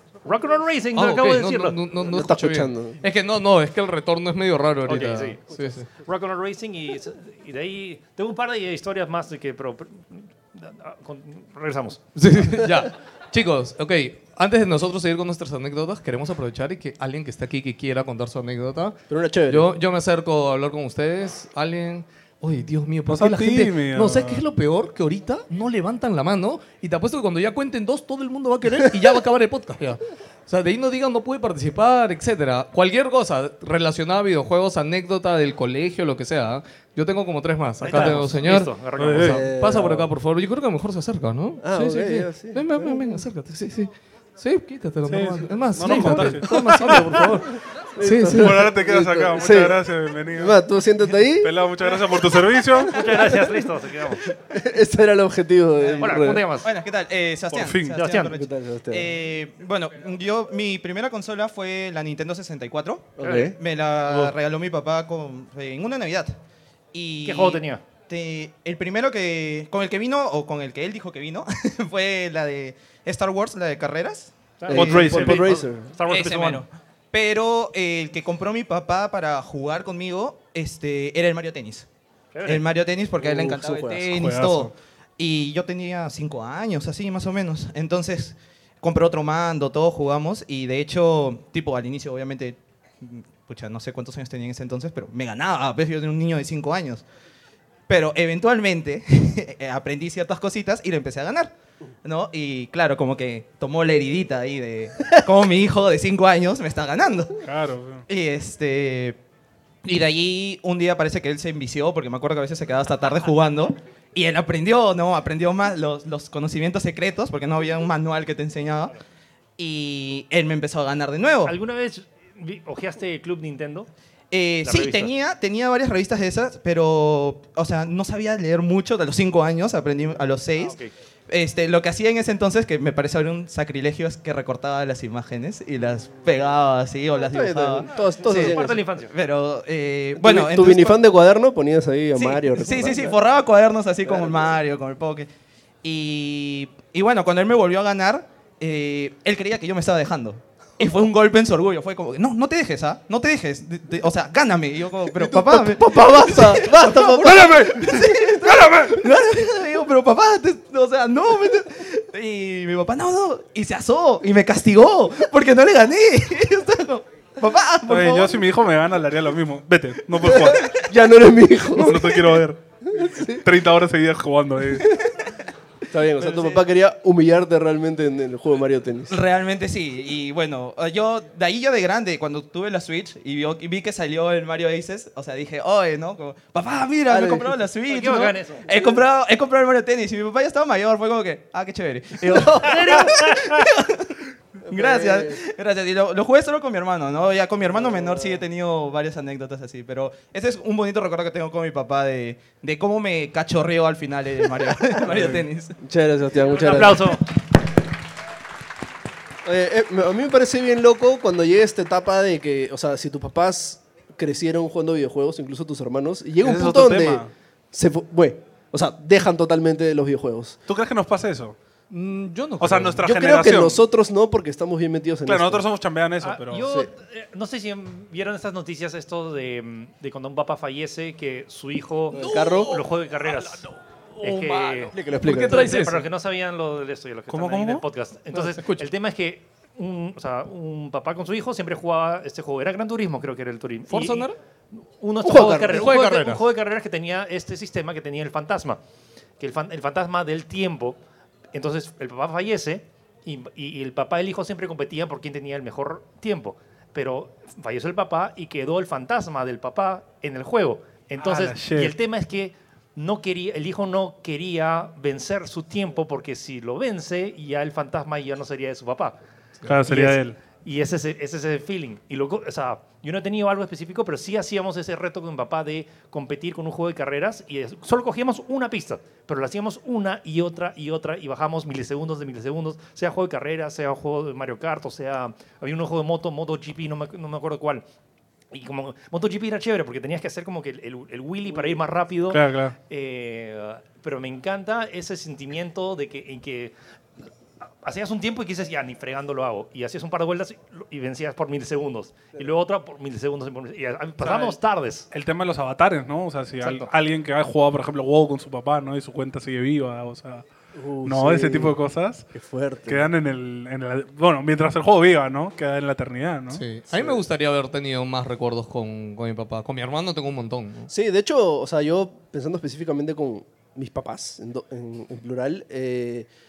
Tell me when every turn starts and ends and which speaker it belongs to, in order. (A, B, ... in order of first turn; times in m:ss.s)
0:00.2-0:01.8 A
0:00.9-0:05.9 B
0:02.0-0:03.0 C
0:04.8-0:12.0 A
0:12.2-0:19.0 B
0:19.1-0:19.7 C
0:19.5-0:48.6 B
0:23.1-0:24.4 D
0:37.8-0:39.4 A
0:39.0-0:39.4 D
0:39.2-0:40.1 C
0:41.6-0:43.2 C
0:45.0-0:47.2 D
0:48.0-0:49.8 C
0:48.3-0:50.6 D
0:50.4-0:51.5 C
0:51.4-0:53.1 D
0:52.7-0:53.3 C
0:52.9-0:54.3 A
0:54.4-0:56.5 C
0:55.8-1:06.4 E
0:56.0-0:56.7 A
0:57.5-0:58.1 D
0:57.9-0:58.3 A
0:58.3-0:59.1 C
1:03.2-1:03.6 C
1:03.2-1:03.5 A
1:06.9-1:15.4 E
1:07.2-1:07.8 A
1:14.6-1:16.6 A
1:14.7-1:15.9 C
1:14.7-1:15.5 D
1:16.1-1:21.9 E
1:22.3-1:22.6 A
1:22.4-1:37.0 E
1:23.2-1:24.0 C
1:24.1-1:24.7 D
1:37.9-1:41.5 E
1:42.0-1:47.4 E
1:47.4-1:48.0 D
1:48.1-1:49.2 E
1:49.8-1:58.9 E
1:59.6-2:01.6 E
2:01.4-2:03.9 A
2:04.3-2:10.8 E
2:04.6-2:05.1 A
2:10.6-2:10.9 A
2:11.3-2:21.0 E
2:17.2-2:18.8 C
2:18.0-2:19.1 A
2:20.2-2:23.2 C
2:22.2-2:25.3 E
2:24.0-2:24.5 C
2:25.8-2:48.4 E
2:35.1-2:38.8 C
2:47.9-2:50.7 D
2:50.2-2:53.5 C
2:51.7-2:52.6 D
2:53.3-2:55.0 D
2:54.8-2:55.1 C
2:55.9-2:59.2 C
2:59.1-3:14.1 E
3:07.1-3:07.6 C
3:07.9-3:08.7 A
3:12.2-3:13.0 C
3:12.6-3:13.5 A
3:14.6-3:15.4 C
3:14.7-3:25.8 E
3:17.7-3:18.4 C
3:24.9-3:27.2 C
3:26.4-3:27.2 A
3:29.4-3:40.6 C
3:36.4-3:37.3 D
3:40.7-3:41.6 D
3:41.9-3:43.0 B
3:42.6-3:43.8 D
3:43.0-3:45.6 C
3:45.2-3:46.7 D
3:46.2-3:53.6 A
3:52.1-3:52.7 C
3:52.1-3:56.0 B
3:54.2-4:04.3 A
3:54.9-3:55.7 C
3:57.3-3:57.8 D
3:58.3-3:58.8 B
4:03.9-4:04.4 B
4:05.0-4:08.8 A
4:05.2-4:05.8 C
4:05.5-4:06.4 B
4:09.4-4:11.0 A
4:11.5-4:29.2 A
4:21.2-4:21.9 D
4:29.6-4:30.4 D
4:29.9-4:47.8 A
4:48.5-4:56.7 A
4:52.3-4:52.7 D
4:57.8-5:05.1 A
5:04.2-5:04.6 D
5:05.1-5:10.4 D
5:06.6-5:06.9 A
5:10.7-5:11.7 C
5:11.0-5:12.3 D
5:12.3-5:13.1 C
5:12.9-5:16.6 D
5:16.5-5:20.9 B
5:16.9-5:17.2 C
5:20.9-5:26.3 C